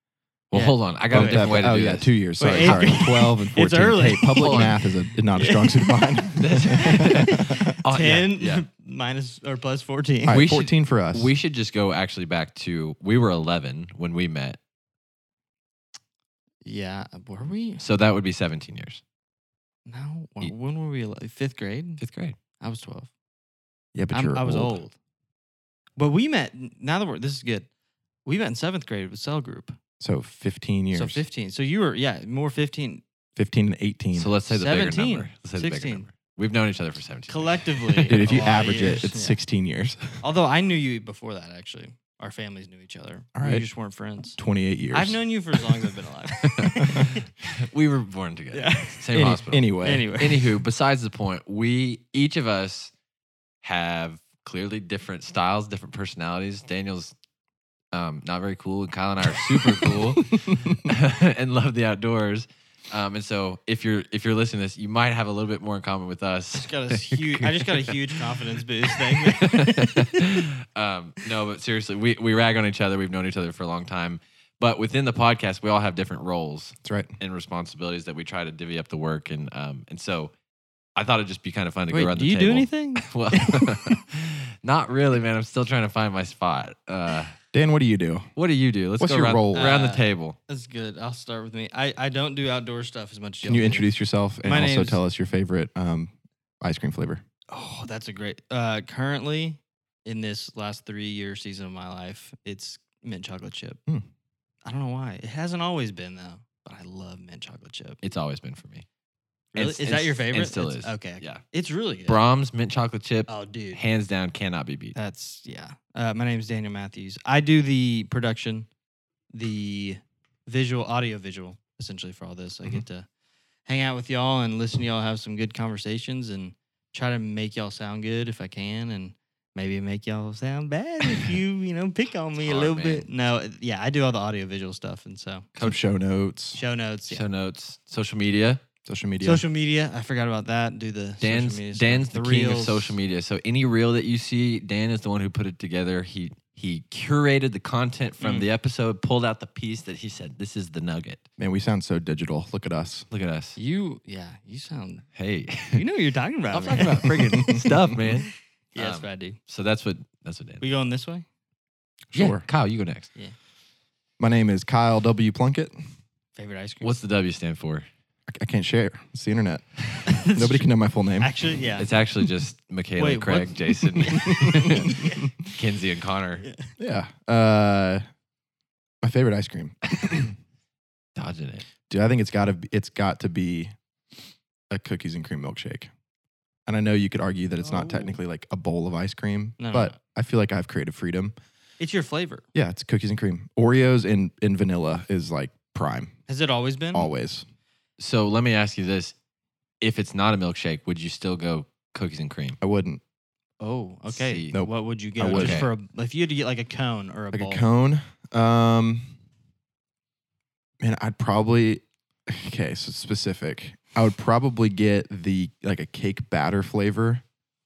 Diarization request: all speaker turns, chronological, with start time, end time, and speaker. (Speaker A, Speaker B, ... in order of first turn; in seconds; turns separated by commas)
Speaker A: 0.5-2.9, Speaker B: 0.5-1.5, Speaker C: 1.1-7.7, Speaker B: 2.4-10.4, Speaker A: 4.3-4.8, Speaker A: 6.3-8.6, Speaker C: 10.2-11.3, Speaker A: 10.3-14.6, Speaker B: 16.6-17.8, Speaker A: 17.8-19.0, Speaker B: 19.9-22.0, Speaker A: 22.0-22.4, Speaker B: 22.6-23.1, Speaker C: 23.9-24.8, Speaker B: 24.1-24.9, Speaker B: 26.0-27.7, Speaker B: 28.2-29.8, Speaker C: 30.0-31.2, Speaker B: 30.9-33.0, Speaker C: 33.4-34.3, Speaker A: 34.1-38.5, Speaker B: 34.5-36.0, Speaker B: 37.3-39.4, Speaker C: 38.1-40.2, Speaker B: 40.2-44.4, Speaker C: 43.3-43.6, Speaker C: 44.4-45.2, Speaker B: 44.9-47.2, Speaker A: 46.4-52.9, Speaker C: 46.7-47.1, Speaker B: 48.5-50.6, Speaker C: 49.1-50.1, Speaker A: 53.6-57.1, Speaker A: 57.9-80.3, Speaker C: 60.1-60.7, Speaker B: 66.6-70.4, Speaker C: 76.8-77.1, Speaker A: 81.0-87.4, Speaker B: 81.9-84.0, Speaker C: 87.5-88.3, Speaker A: 88.3-90.4, Speaker C: 89.0-89.7, Speaker B: 89.5-95.0, Speaker C: 93.4-97.2, Speaker B: 97.5-103.8, Speaker B: 104.6-108.0, Speaker A: 108.0-108.8, Speaker B: 109.5-112.2, Speaker A: 109.5-111.4, Speaker A: 112.1-115.0, Speaker B: 113.3-113.8, Speaker B: 114.9-118.7, Speaker B: 119.3-123.0, Speaker B: 123.7-135.5, Speaker A: 132.4-133.1, Speaker C: 135.6-136.6, Speaker B: 136.5-137.3, Speaker A: 137.1-138.6, Speaker C: 138.8-139.4, Speaker B: 139.2-142.9, Speaker A: 141.2-151.2, Speaker B: 148.2-148.5, Speaker C: 151.4-153.1, Speaker A: 153.1-153.6, Speaker B: 153.6-155.1, Speaker A: 155.2-155.8, Speaker B: 155.7-158.1, Speaker A: 156.5-160.6, Speaker C: 157.2-157.7, Speaker B: 158.7-159.4, Speaker B: 160.6-161.2, Speaker C: 162.1-162.4, Speaker A: 162.1-163.1, Speaker C: 164.2-165.7, Speaker B: 166.3-167.0, Speaker A: 166.8-167.8, Speaker C: 168.3-171.3, Speaker B: 170.1-171.9, Speaker A: 171.8-176.4, Speaker B: 173.0-175.3, Speaker C: 174.1-175.2, Speaker B: 176.4-176.7, Speaker C: 176.8-178.0, Speaker C: 179.0-180.3, Speaker A: 181.2-181.7, Speaker C: 181.9-183.7, Speaker C: 184.7-185.9, Speaker C: 186.7-191.3, Speaker B: 187.6-188.2, Speaker B: 189.6-190.0, Speaker B: 191.8-192.4, Speaker C: 192.5-196.1, Speaker B: 196.3-197.1, Speaker C: 196.9-197.4, Speaker A: 198.0-199.1, Speaker A: 199.8-202.6, Speaker C: 202.6-203.0, Speaker B: 203.6-207.7, Speaker A: 204.1-204.5, Speaker C: 204.5-205.6, Speaker A: 205.3-205.7, Speaker C: 207.3-209.1, Speaker C: 210.8-217.2